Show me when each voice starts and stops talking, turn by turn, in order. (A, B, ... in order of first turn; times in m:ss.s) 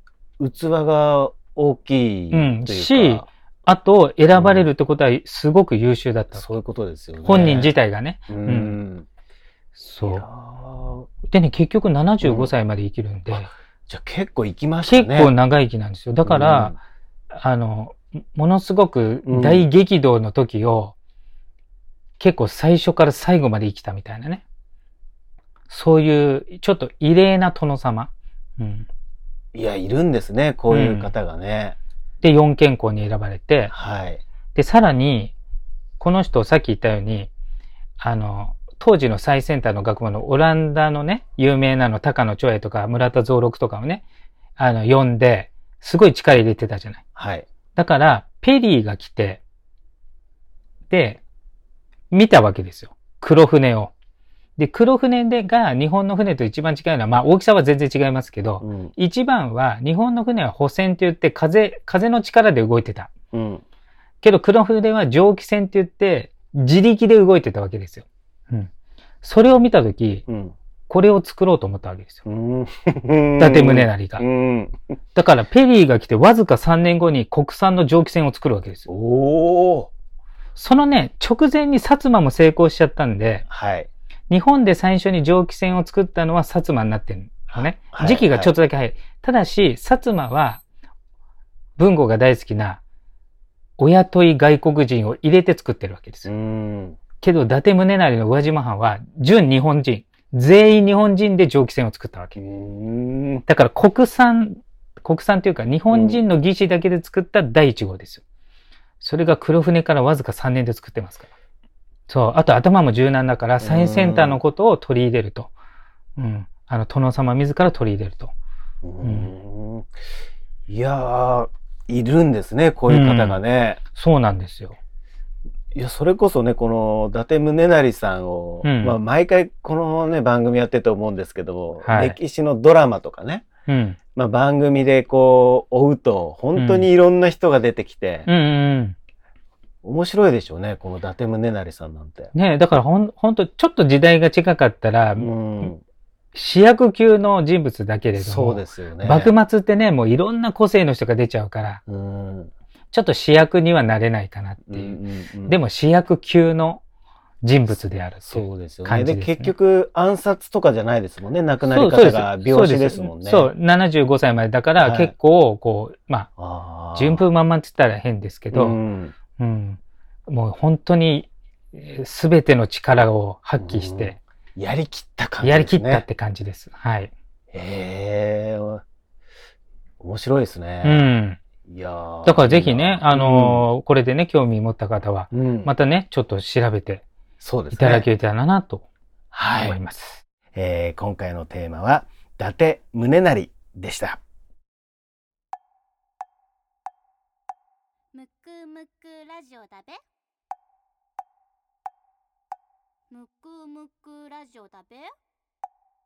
0:00.4-0:03.3 A
0:02.3-0:06.5 B
0:04.4-0:04.7 A
0:06.3-0:07.7 A
0:07.2-0:08.8 B
0:08.3-0:09.1 A
0:09.8-0:10.2 B
0:10.1-0:11.1 A
0:11.3-0:13.5 B
0:12.2-0:12.5 A
0:13.3-0:15.3 A
0:14.8-0:16.8 B
0:16.2-0:16.8 A
0:17.3-0:21.0 B
0:19.3-0:19.7 A
0:22.2-0:24.4 B
0:25.7-0:28.9 B
0:29.6-0:31.8 A
0:30.7-0:31.1 B
0:32.2-0:33.7 B
0:33.7-0:34.2 A
0:34.6-0:35.3 B
0:36.0-0:37.3 B
0:38.0-0:44.0 B
0:44.6-0:47.0 B
0:47.2-0:47.5 A
0:47.8-0:49.4 B
0:50.9-0:51.2 B
0:52.1-0:53.9 B
0:54.6-1:03.1 B
0:58.6-0:58.9 A
1:03.3-1:03.6 A
1:04.2-1:08.7 B
1:09.2-1:10.2 B
1:10.3-1:10.6 A
1:10.9-1:12.2 B
1:12.3-1:14.8 A
1:13.4-1:14.2 B
1:15.2-1:18.9 B
1:18.9-1:19.9 A
1:20.6-1:23.4 B
1:23.5-1:23.9 A
1:24.3-1:30.6 B
1:27.5-1:28.5 A
1:31.8-1:32.8 B
1:33.8-1:36.3 B
1:36.3-1:37.0 A
1:37.2-1:42.4 B
1:42.4-1:43.4 A
1:43.5-1:48.2 B
1:45.9-1:46.2 A
1:49.0-1:51.3 B
1:52.1-1:55.5 B
1:53.6-1:54.4 A
1:56.2-1:58.3 B
1:58.8-1:59.9 A
1:59.0-1:59.3 B
2:00.7-2:03.8 A
2:02.9-2:03.4 B
2:03.9-2:04.8 B
2:05.7-2:13.4 A
2:08.6-2:09.0 B
2:11.8-2:12.2 B
2:13.7-2:14.0 B
2:14.2-2:18.3 A
2:16.6-2:16.9 B
2:18.3-2:19.0 B
2:19.8-2:22.3 A
2:22.3-2:25.3 B
2:25.2-2:25.8 A
2:26.3-2:31.8 B
2:28.2-2:29.3 A
2:31.9-2:32.5 A
2:32.9-2:36.8 B
2:34.7-2:35.6 A
2:37.4-2:39.5 B
2:38.2-2:43.5 A
2:41.6-2:46.3 B
2:44.8-2:45.1 A
2:46.4-2:47.2 A
2:47.0-2:48.8 B
2:48.5-2:49.1 A
2:49.4-2:54.2 B
2:53.6-2:56.0 A
2:55.4-2:57.1 B
2:57.5-2:58.8 A
3:00.0-3:01.1 A
3:00.8-3:01.4 B
3:01.7-3:03.7 A
3:02.2-3:07.0 B
3:05.3-3:05.7 A
3:07.4-3:08.1 A
3:07.7-3:08.8 B
3:09.3-3:09.8 A
3:09.6-3:10.2 B
3:10.6-3:14.2 A
3:18.1-3:20.0 C
3:23.1-3:25.1 C